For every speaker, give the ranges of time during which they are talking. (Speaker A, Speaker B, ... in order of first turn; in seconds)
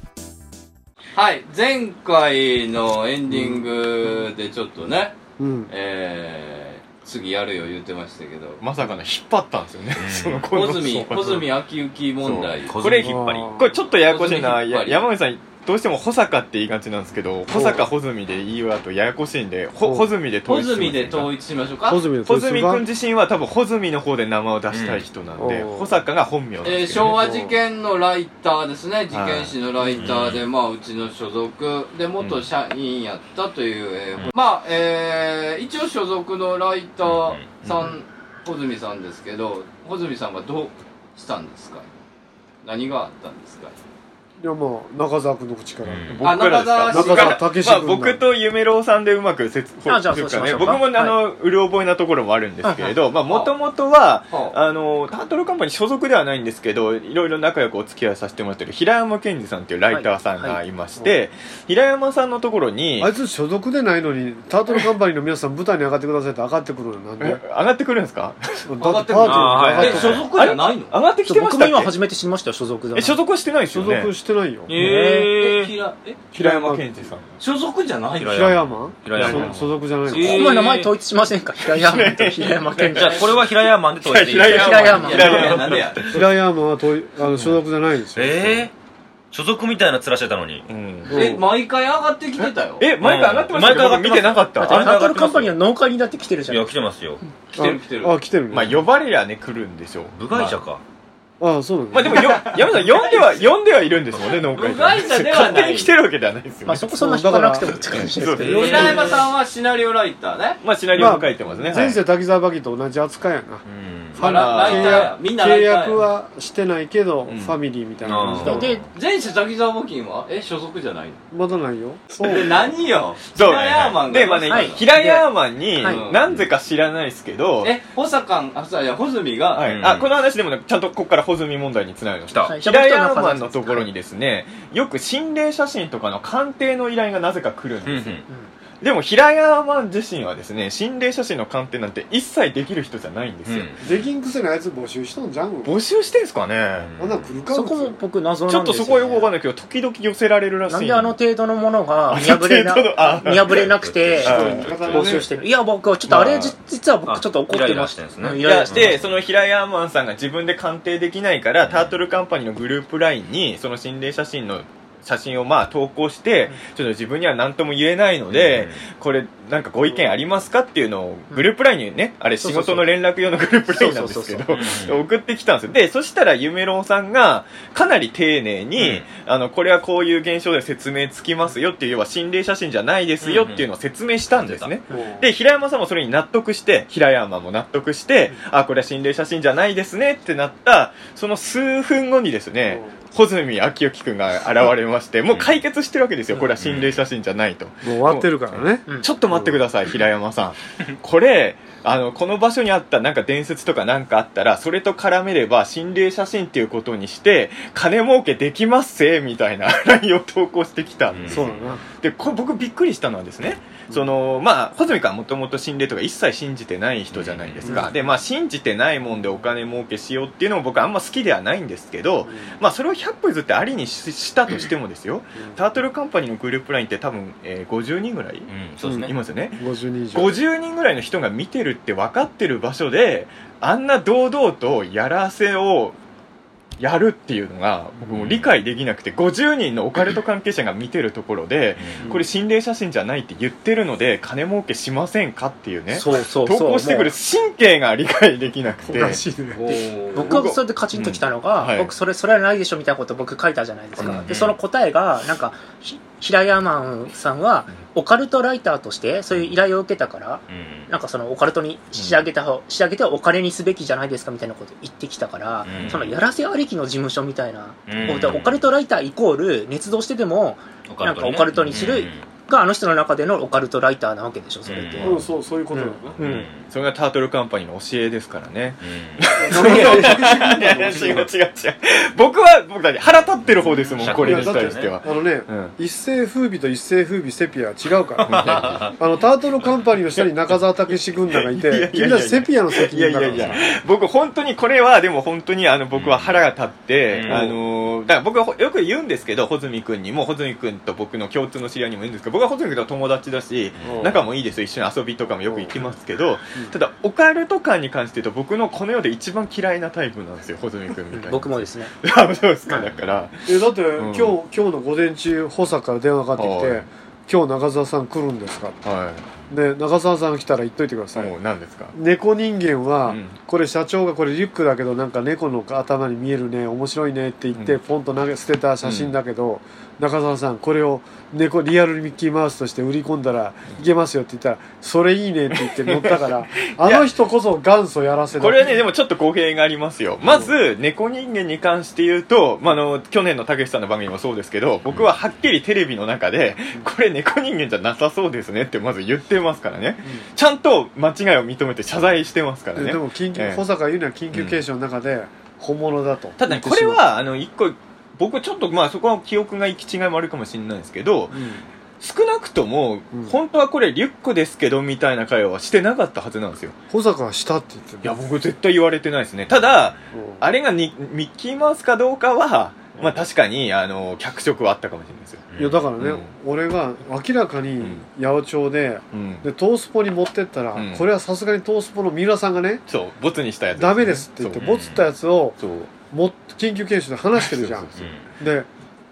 Speaker A: 1.1-5.2, 5.7-8.6, 10.5-12.8, 14.0-15.0, 20.5-22.1, 26.6-41.9, 42.6-43.8, 46.2-47.5, 53.2-53.5, 54.3-54.6, 68.8-71.0, 74.9-76.3, 77.4-78.7, 84.9-86.2, 91.1-92.9, 97.5-98.2, 102.2-103.5, 104.5-105.9, 108.4-110.6, 114.2-116.1, 118.9-121.2, 122.2-124.9, 125.8-126.3, 127.6-129.8, 249.5-250.4
Speaker B: 3.3-4.2, 5.4-5.7, 13.0-13.8, 17.5-17.9, 19.8-20.1, 21.9-22.8, 25.4-25.9, 27.1-27.6, 44.4-46.3, 46.9-48.2, 63.0-67.4, 68.7-70.3, 73.7-74.7, 76.3-77.1, 78.3-80.5, 86.1-88.7, 91.1-91.5, 97.6-98.8, 101.4-102.8, 106.9-109.2, 110.9-113.6, 114.2-118.8, 121.3-122.7, 143.8-145.8, 147.0-148.0, 154.2-155.3, 184.9-185.3, 197.8-199.6, 211.3-211.8, 217.7-218.0, 222.2-222.5, 228.8-230.4, 248.9-249.7, 275.0-276.2, 279.4-281.3, 284.0-293.6, 297.3-297.6, 303.8-304.2, 305.5-305.8, 313.5-318.8, 319.5-321.3, 321.9-338.8, 340.3-340.5, 352.8-357.0, 361.3-361.7, 366.9-368.2, 370.1-370.5, 375.6-382.8, 383.7-385.6, 386.1-387.9, 388.4-388.7
Speaker C: 8.6-11.5, 12.2-21.3, 22.2-27.2, 29.1-29.6, 32.2-32.5, 37.6-37.9, 46.1-63.1, 67.2-68.7, 69.7-71.9, 72.9-74.1, 76.3-77.4, 79.1-79.7, 81.7-86.2, 90.7-91.2, 92.8-95.0, 98.5-100.6, 101.9-106.9, 107.8-109.1, 110.6-112.0, 114.2-115.1, 117.3-117.6, 123.3-127.8, 129.6-138.2, 138.8-143.7, 145.6-146.9, 148.5-151.2, 152.1-153.7, 154.2-155.2, 156.1-156.6, 158.4-236.0, 236.8-249.2, 250.2-251.9, 254.0-254.5, 261.9-262.3, 265.7-266.1, 276.2-285.8, 288.2-288.9, 290.2-290.6, 291.3-314.4, 316.4-316.9, 318.8-319.3, 321.1-321.9, 323.1-323.4, 327.5-327.8, 328.8-329.2, 335.5-337.1, 338.4-353.6, 354.3-354.6, 356.4-361.4, 362.0-366.8, 368.0-375.5, 376.0-376.3, 379.1-379.5, 380.7-381.1, 382.9-384.8, 385.6-385.9, 387.4-388.1
Speaker D: 10.0-10.5, 12.7-13.5, 24.7-25.0, 29.9-30.4, 37.0-37.5, 45.9-46.2, 69.2-70.3, 74.7-75.7, 78.2-80.9, 82.9-85.6, 87.3-87.6, 88.2-88.7, 89.3-90.7, 93.0-95.6, 96.5-97.2, 100.1-100.8, 113.7-114.2, 118.0-118.9, 129.7-130.1, 132.3-132.6, 137.8-138.2, 143.5-143.8, 146.8-147.3, 153.5-155.2, 157.1-159.0, 161.6-162.0, 168.3-168.8, 174.5-175.0, 178.8-179.1, 183.2-183.7, 184.3-184.7, 195.3-195.6, 196.6-197.0, 211.1-211.6, 217.1-217.8, 228.5-229.1, 238.1-238.5, 241.8-242.1, 254.1-254.5, 260.5-260.9, 265.6-266.1, 267.9-268.6, 270.9-272.2, 274.7-275.2, 276.2-276.6, 278.8-279.3, 283.6-284.9, 288.3-288.9, 293.3-293.6, 295.9-296.4, 297.1-297.5, 303.8-304.1, 375.5-375.9, 384.6-385.1, 388.0-388.3
Speaker E: 49.9-51.2, 52.6-52.9, 59.9-60.6, 71.2-73.2, 74.8-75.3, 80.2-83.2, 84.4-85.5, 94.6-96.7, 106.7-109.1, 118.3-118.8, 124.5-126.0, 132.5-133.9, 147.5-149.3, 150.7-159.0, 172.4-172.9, 173.7-174.6, 245.9-247.1, 250.1-275.2, 311.1-311.9